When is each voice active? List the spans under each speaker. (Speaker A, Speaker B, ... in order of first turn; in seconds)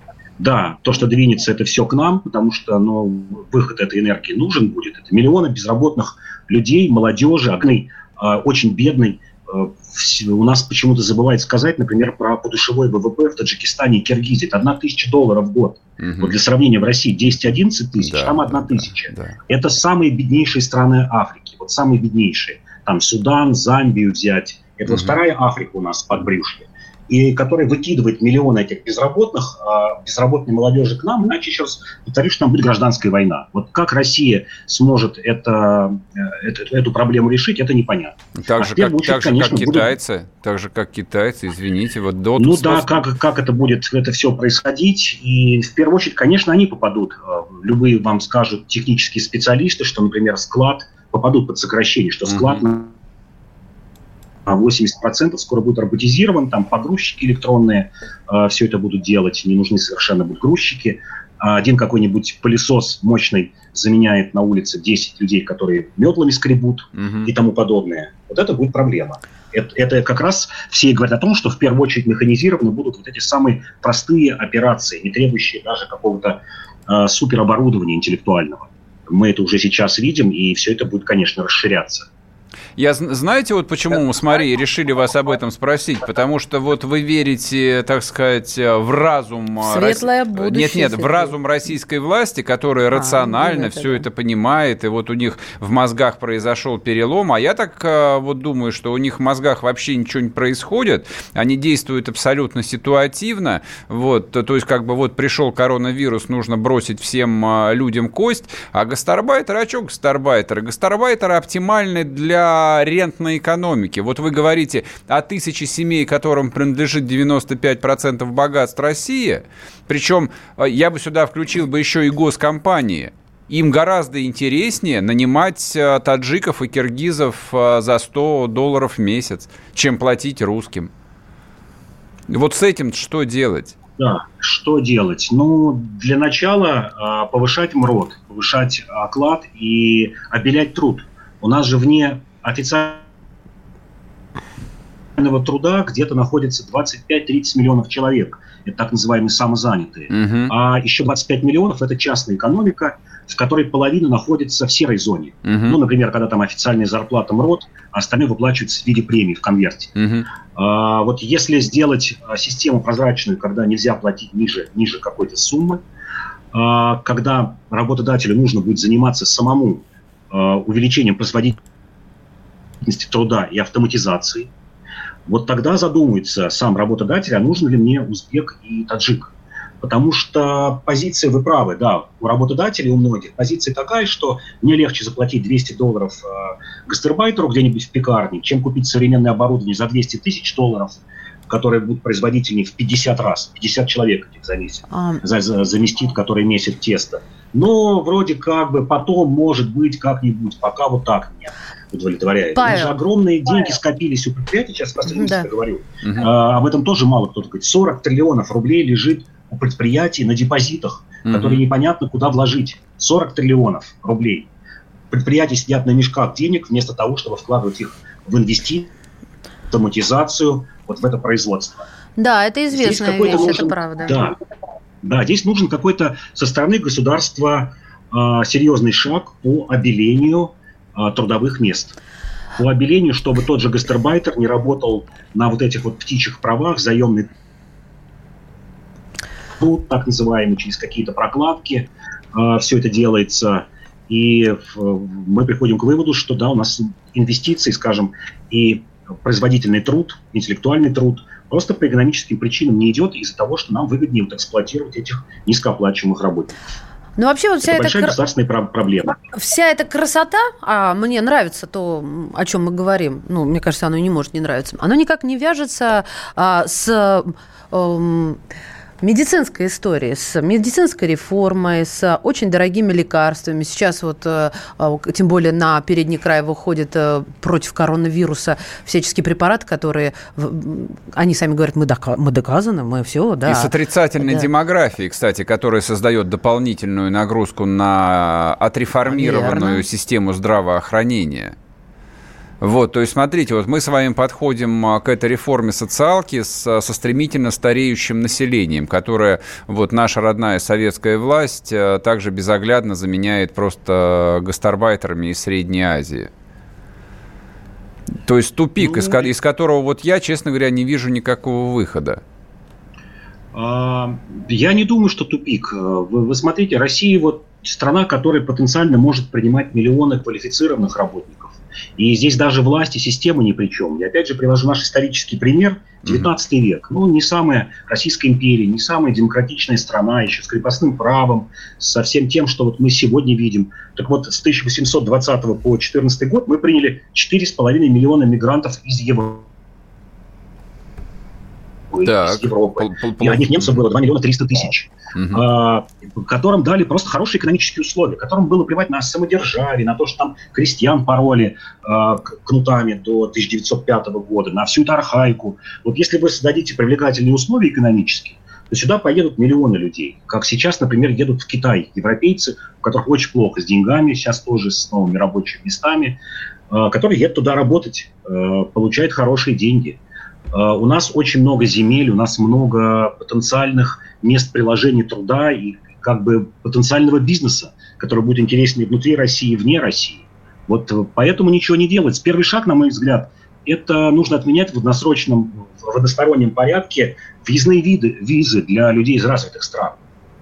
Speaker A: 0.4-39.9, 42.4-52.9, 54.5-82.1, 134.0-143.1, 145.2-159.9, 160.5-165.8, 166.5-171.6, 172.8-174.5, 175.3-214.5, 215.1-218.9, 219.7-221.9, 222.7-224.3, 225.0-231.9, 232.6-237.3, 239.6-256.5, 257.6-259.1, 308.8-309.3, 313.5-339.5, 341.9-366.2, 366.7-370.0, 370.5-390.0
Speaker B: 16.0-16.3, 18.0-19.4, 24.9-25.1, 38.4-42.9, 52.3-52.6, 67.0-67.3, 82.8-130.9, 132.3-133.7, 150.1-150.5, 155.4-155.8, 159.9-160.3, 211.2-211.6, 283.4-291.5, 292.6-306.3, 308.2-312.2, 342.0-343.7, 345.1-345.4
Speaker C: 89.6-91.3, 92.9-94.0, 194.9-195.2, 202.5-202.9, 205.1-205.5, 222.2-224.2, 257.2-258.1, 259.3-268.4, 269.0-284.5, 289.1-289.8